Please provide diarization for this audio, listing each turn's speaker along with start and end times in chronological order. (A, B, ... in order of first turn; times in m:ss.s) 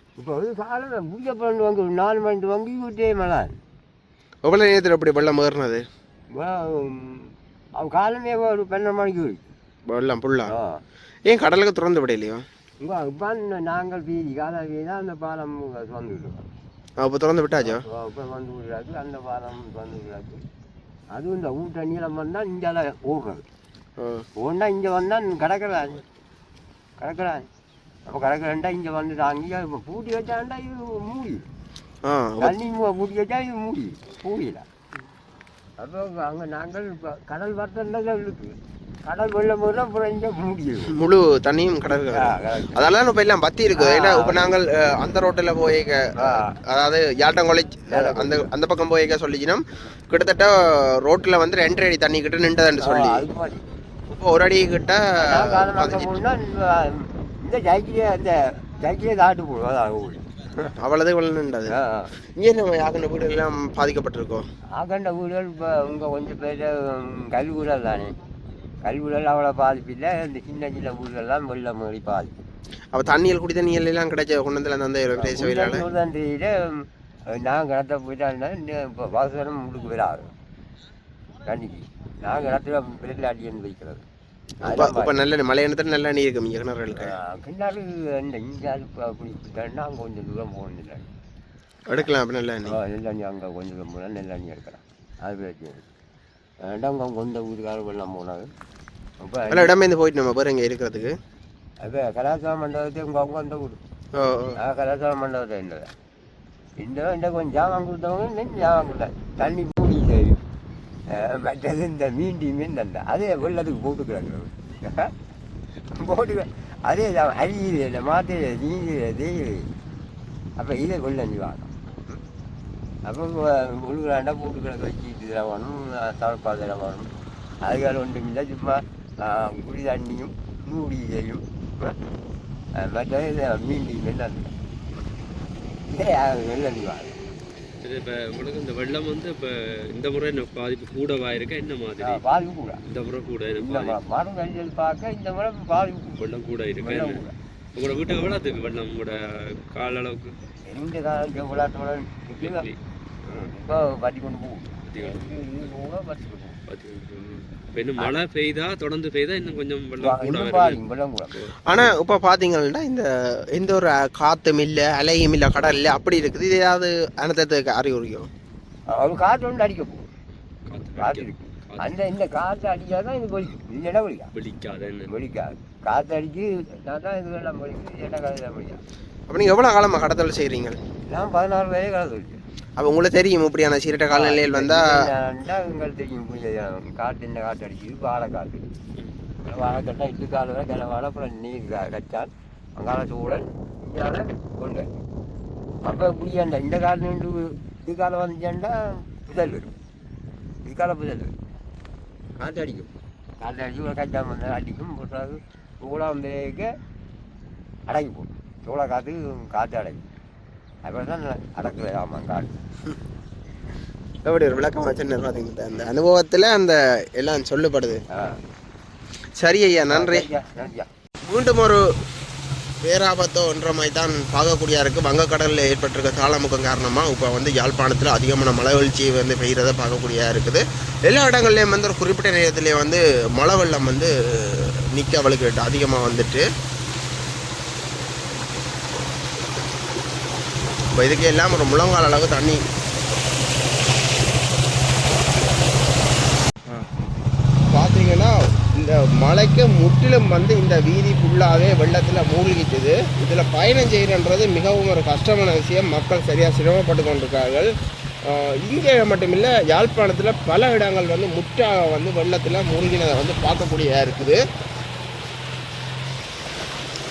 0:00.2-0:03.6 A
0:04.4-0:05.8 B
0:06.3-0:09.5 A
0:09.9-0:10.5 B
0:10.5-0:10.8 A
0:11.2-0:12.4 B
0:12.8-0:16.4 A
0:17.0-0:17.8 B
0:17.6-0:20.4 A
0:21.1-0:23.4 A
0:24.0-0:24.2 B
0:24.4-0:26.0 A
0:27.0-0:27.5 A
0:28.0-0:31.5 A
0:32.0-0:32.5 B
0:32.4-0:34.6 A
0:35.8-0:40.9 A
0:40.9-0:53.2 B
0:42.1-0:42.7 A
0:43.8-0:44.4 A
0:46.2-0:46.5 A
0:47.9-0:48.5 A
0:52.8-0:53.7 A
0:54.1-0:56.2 B
0:55.2-1:00.6 A
1:00.8-1:01.7 B
1:01.7-1:02.1 A
1:02.4-1:04.4 B
1:04.8-1:08.2 A
1:08.8-1:12.4 A
1:12.9-1:15.8 B
1:15.1-1:20.3 A
1:21.4-1:24.0 A
1:24.6-1:25.1 A
1:24.6-1:27.1 B
1:27.0-1:31.1 A
1:31.9-1:32.8 B
1:32.6-1:35.9 A
1:36.6-1:38.5 A
1:39.2-1:39.7 A
1:39.5-1:41.1 B
1:41.8-1:43.8 A
1:44.1-1:44.6 B
1:44.6-1:45.9 A
1:46.8-1:50.4 A
1:51.1-1:55.1 A
1:55.9-1:59.7 A
2:00.6-2:01.7 A
2:03.0-2:07.1 A
2:07.6-2:12.0 A
2:12.8-2:14.5 A
2:15.9-2:17.2 A
2:17.8-2:22.2 C
2:22.0-2:22.8 A
2:22.9-2:24.0 C
2:23.6-2:26.2 A
2:26.2-2:27.2 C
2:26.8-2:27.3 A
2:27.8-2:30.4 C
2:30.6-2:32.7 A
2:32.4-2:32.8 C
2:33.3-2:36.6 A
2:34.9-2:35.3 C
2:36.7-2:40.8 C
2:40.0-2:41.8 A
2:41.6-2:48.3 B
2:48.9-2:50.1 A
2:50.7-2:52.0 C
2:51.0-2:54.3 A
2:54.3-2:55.1 C
2:55.1-2:58.8 A
2:59.3-3:00.8 B
3:01.1-3:02.4 A
3:02.8-3:04.9 B
3:04.1-3:08.6 A
3:09.4-3:15.0 A
3:15.8-3:19.8 A
3:20.6-3:21.3 A
3:22.4-3:26.7 A
3:27.9-3:30.1 A
3:30.8-3:32.6 A
3:34.2-3:38.0 B
3:38.1-3:38.4 A
3:39.4-3:40.2 B
3:39.9-3:40.9 A
3:41.2-3:41.8 B
3:42.8-3:56.4 B
4:00.9-4:02.6 B
4:07.7-4:17.7 B
4:18.2-4:24.4 B